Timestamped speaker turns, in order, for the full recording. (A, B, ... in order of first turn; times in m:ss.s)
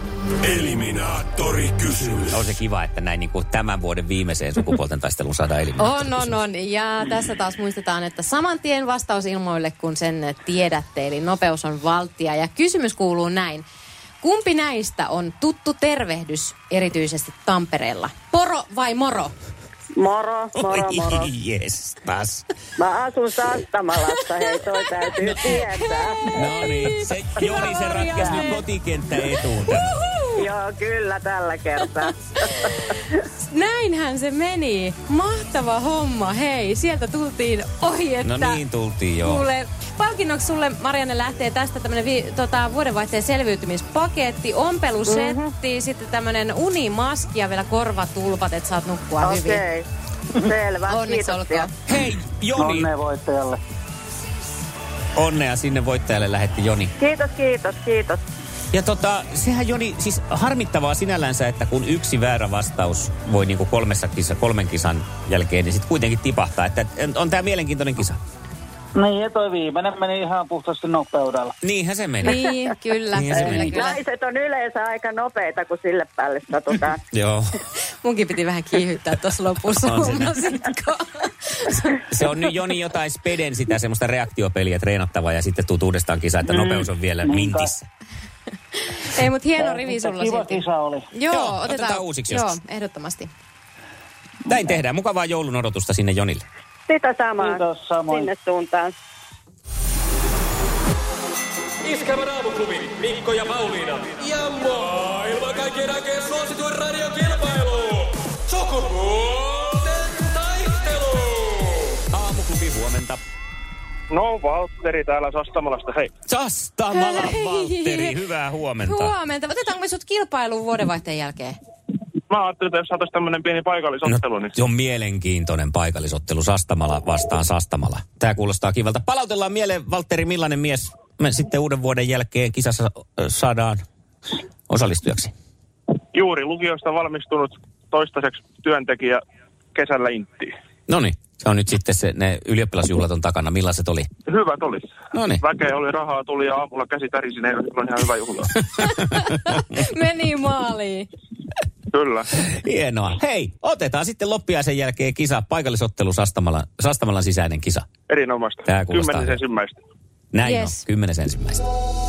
0:00.4-0:02.4 A
0:02.3-0:06.4 B
0:05.8-0:13.6 C
0:14.2-0:19.3 C
0:20.0-0:21.3 D
0:20.6-0:22.5 B
0:22.8-0:26.5 D
0:25.3-0:28.6 C
0:26.3-0:30.0 B
0:29.3-0:30.4 C
0:30.3-0:33.0 D
0:33.4-0:38.6 C
0:38.2-0:39.5 B
0:39.2-0:49.6 C
0:45.1-0:45.5 D
0:49.2-0:51.7 D
0:50.9-0:51.7 C
0:51.9-0:52.9 B
0:52.6-0:53.6 E
0:55.2-0:56.9 B
0:57.0-0:58.2 D
0:58.7-1:08.2 B
1:09.0-1:11.5 E
1:11.6-1:12.4 B
1:12.2-1:14.0 C
1:13.1-1:13.8 B
1:13.4-1:17.0 D
1:17.1-1:17.6 B
1:18.0-1:22.0 C
1:19.7-1:20.3 B
1:22.1-1:27.9 B
1:26.5-1:27.7 E
1:28.8-1:33.3 C
1:29.6-1:31.1 E
1:31.3-1:32.6 B
1:34.5-1:36.4 B
1:36.9-1:38.9 D
1:37.4-1:38.3 E
1:41.8-1:52.0 F
1:52.1-1:53.2 B
1:54.1-1:56.1 G
1:56.3-1:59.2 B
1:56.9-1:58.2 C
1:58.8-2:01.6 C
2:02.3-2:04.6 G
2:04.1-2:13.8 B
2:14.7-2:15.3 B
2:16.1-2:19.2 G
2:19.8-2:20.5 G
2:20.9-2:24.1 B
2:24.3-2:24.9 G
2:25.1-2:25.4 B
2:25.4-2:28.6 G
2:28.8-2:31.1 C
2:31.9-2:32.3 G
2:32.5-2:37.9 B
2:38.1-2:39.8 G
2:38.7-2:39.4 B
2:40.3-2:41.6 B
2:40.4-2:40.8 C